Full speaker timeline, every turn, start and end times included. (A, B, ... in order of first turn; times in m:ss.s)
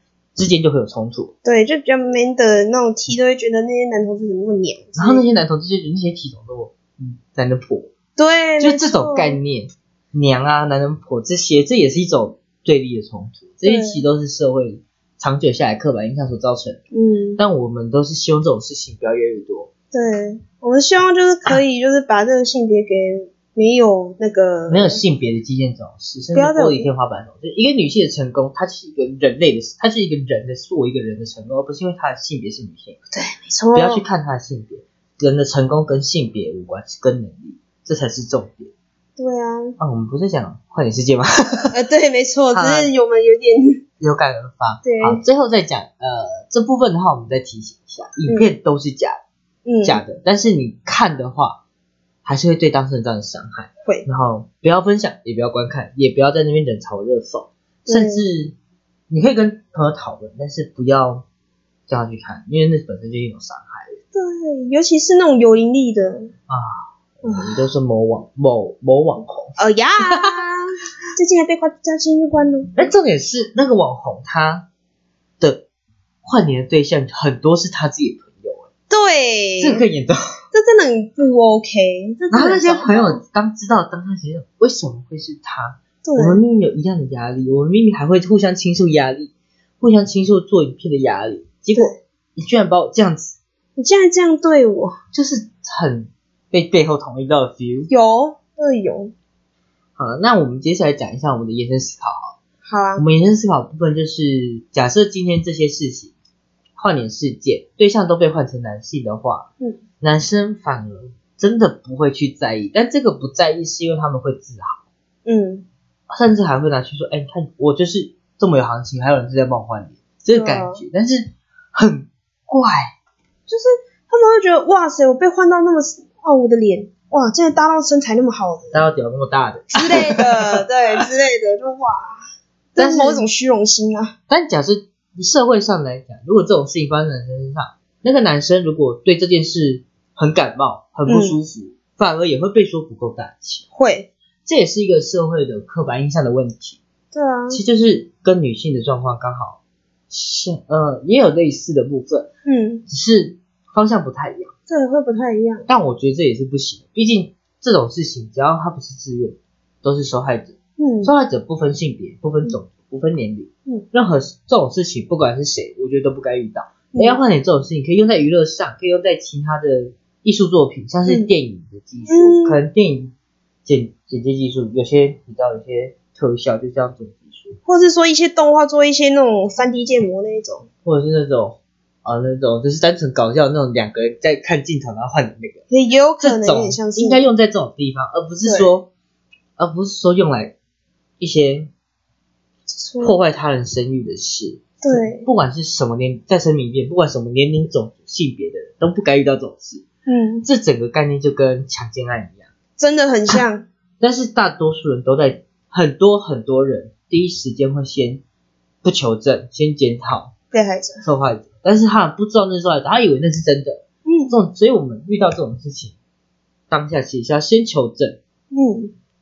0:00.4-0:01.3 A
0:01.4-0:05.3 B
0:05.0-0:07.9 A
0:08.2-0:09.4 B
0:08.6-0:16.8 A
0:13.6-0:14.0 B
0:16.9-0:17.4 B
0:17.4-0:19.7 A
0:19.9-0:25.0 B
0:24.7-0:33.0 A
0:26.3-0:26.9 B
0:33.1-0:34.0 B
0:33.7-0:38.7 A
0:39.2-0:39.8 B
0:39.8-0:41.8 A
0:41.7-0:43.8 B
0:42.5-0:42.9 A
0:44.0-0:49.2 A
0:44.8-0:45.2 B
0:49.7-0:50.0 B
0:49.8-0:51.6 A
0:52.2-0:58.6 A
0:57.9-0:58.2 B
0:59.1-1:01.2 A
1:01.9-1:04.0 A
1:04.1-1:06.3 B
1:06.5-1:10.4 A
1:09.6-1:10.6 B
1:11.2-1:12.7 B
1:12.8-1:14.7 A
1:15.4-1:15.6 A
1:16.2-1:18.7 A
1:18.9-1:19.8 B
1:19.6-1:20.2 A
1:20.5-1:23.2 B
1:22.3-1:33.4 A
1:26.0-1:26.4 B
1:33.8-1:35.0 B
1:35.1-1:37.9 A
1:37.9-1:39.1 B
1:40.0-1:42.4 A
1:42.6-1:43.0 B
1:43.0-1:46.1 A
1:46.8-1:49.5 A
1:50.0-1:54.9 A
1:55.3-1:55.7 B
1:56.1-2:02.9 A
2:00.3-2:00.8 B
2:03.5-2:08.8 B
2:08.7-2:10.6 A
2:09.7-2:12.2 B
2:12.8-2:14.1 B
2:12.8-2:13.2 A
2:14.3-2:23.7 A
2:21.1-2:21.4 B
2:23.8-2:24.1 B
2:24.4-2:26.8 A
2:27.1-2:27.6 B
2:27.5-2:32.3 A
2:32.5-2:32.8 B
2:32.9-2:34.5 A
2:34.7-2:35.7 B
2:35.7-2:53.1 A
2:40.8-2:41.1 B
2:47.0-2:47.2 B
2:52.1-2:52.6 B
2:53.6-2:57.6 A
2:57.6-3:00.7 B
3:00.8-3:05.6 A
3:05.7-3:07.2 B
3:06.2-3:08.9 A
3:08.4-3:08.7 B
3:09.6-3:10.6 A
3:11.2-3:11.7 A
3:12.7-3:13.2 B
3:13.0-3:19.9 A
3:14.8-3:15.3 B
3:20.1-3:20.4 B
3:20.4-3:22.5 A
3:22.8-3:23.6 B
3:24.0-3:28.2 A
3:28.8-3:30.3 A
3:30.5-3:31.0 B
3:31.0-3:36.0 A
3:34.1-3:34.3 B
3:36.7-3:38.2 A
3:38.5-3:38.9 B